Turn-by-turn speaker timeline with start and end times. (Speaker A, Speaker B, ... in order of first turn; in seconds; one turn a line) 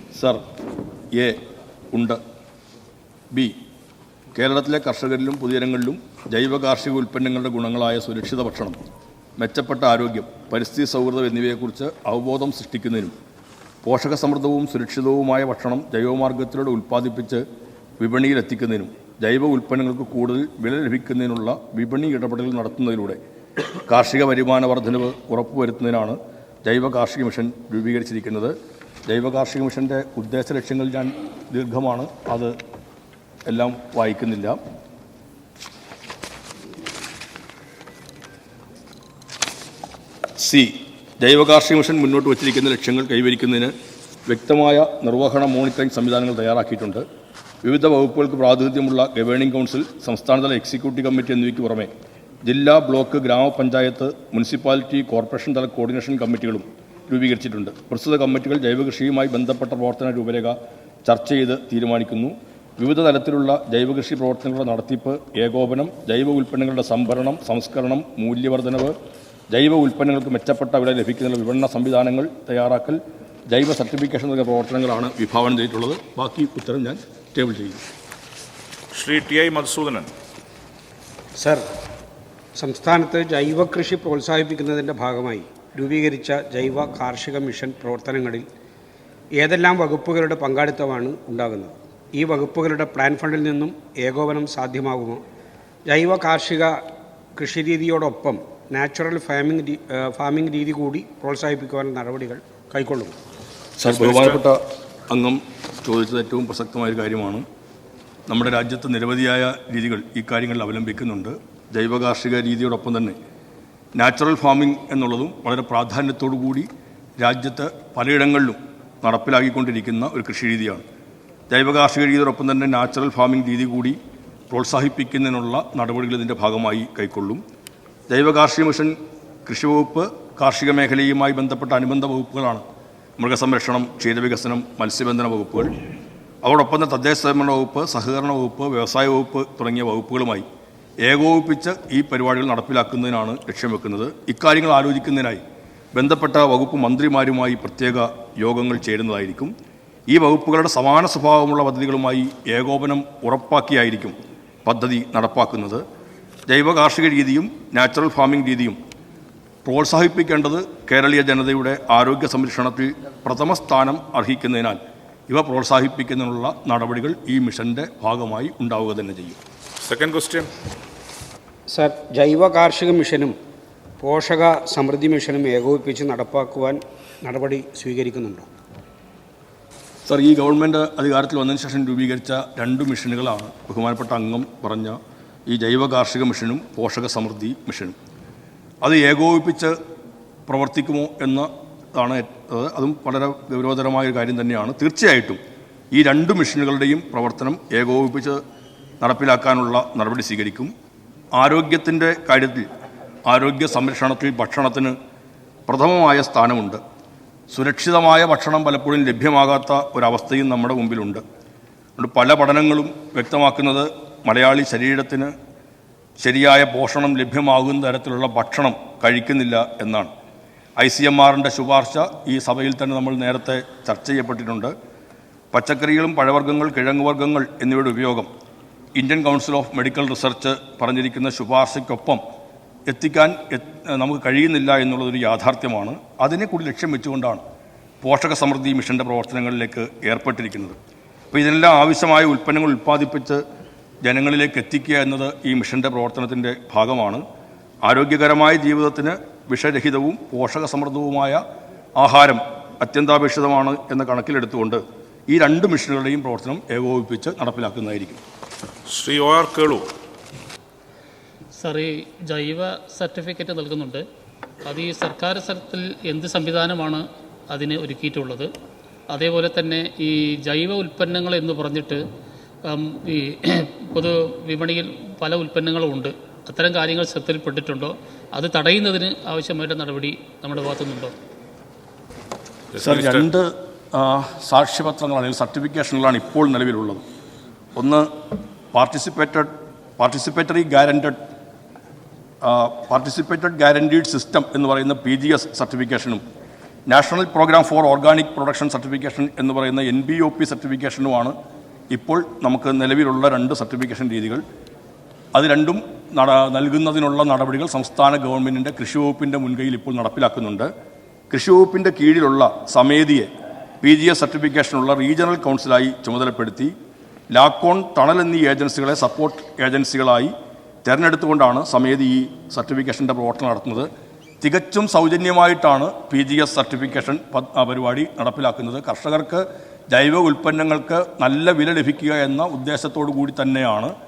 Speaker A: 0.1-0.4
Speaker A: 1.1-1.4
Speaker A: 1.9-2.2
Speaker A: 4.3-8.8
Speaker A: 9.4-13.2
Speaker A: 13.8-17.4
Speaker A: 18.0-23.2
Speaker A: 23.9-28.6
Speaker A: 29.1-32.6
Speaker A: 33.5-34.6
Speaker A: 40.4-43.7
Speaker A: 44.3-47.0
Speaker A: 47.6-51.9
Speaker A: 52.5-68.9
Speaker A: 69.5-77.8
Speaker B: 78.9-80.1
Speaker C: 81.4-81.7
Speaker C: 82.6-88.5
Speaker C: 89.4-95.2
Speaker C: 95.9-96.8
Speaker C: 97.4-103.2
Speaker A: 103.8-107.5
Speaker B: 103.8-104.4
Speaker A: 108.3-113.2
Speaker A: 114.0-120.8
Speaker A: 121.5-124.0
Speaker A: 124.5-127.4
Speaker A: 128.1-132.6
Speaker A: 133.2-135.7
Speaker A: 136.4-140.5
Speaker A: 141.0-145.4
Speaker A: 145.9-149.5
Speaker A: 150.1-155.8
Speaker A: 156.5-158.8
Speaker A: 159.7-169.4
Speaker B: 169.8-170.5
Speaker C: 171.7-173.3
Speaker C: 174.0-178.5
Speaker A: 180.1-188.0
Speaker A: 188.8-189.8
Speaker A: 190.5-195.4
Speaker A: 195.9-198.4
Speaker A: 199.0-200.7
Speaker A: 201.4-202.7
Speaker A: 203.3-204.9
Speaker A: 205.7-206.8
Speaker A: 207.5-211.2
Speaker A: 212.0-215.3
Speaker A: 216.2-220.1
Speaker A: 220.8-224.7
Speaker A: 225.5-228.3
Speaker A: 228.9-232.2
Speaker A: 232.9-237.4
Speaker A: 238.0-240.8
Speaker A: 241.3-243.4
Speaker A: 244.0-247.2
Speaker A: 247.8-251.4
Speaker A: 252.0-258.2
Speaker B: 258.9-259.9
Speaker D: 261.6-264.1
Speaker D: 264.6-268.5
Speaker D: 269.1-272.0
Speaker D: 272.7-281.1
Speaker B: 282.7-283.3
Speaker A: 282.8-287.0
Speaker A: 287.8-288.1
Speaker A: 288.7-291.2
Speaker A: 292.4-296.2
Speaker A: 296.9-301.4
Speaker A: 301.9-304.4
Speaker A: 305.3-310.7
Speaker A: 311.3-313.3
Speaker A: 313.8-316.7
Speaker A: 317.3-320.3
Speaker A: 320.8-323.9
Speaker A: 324.4-333.9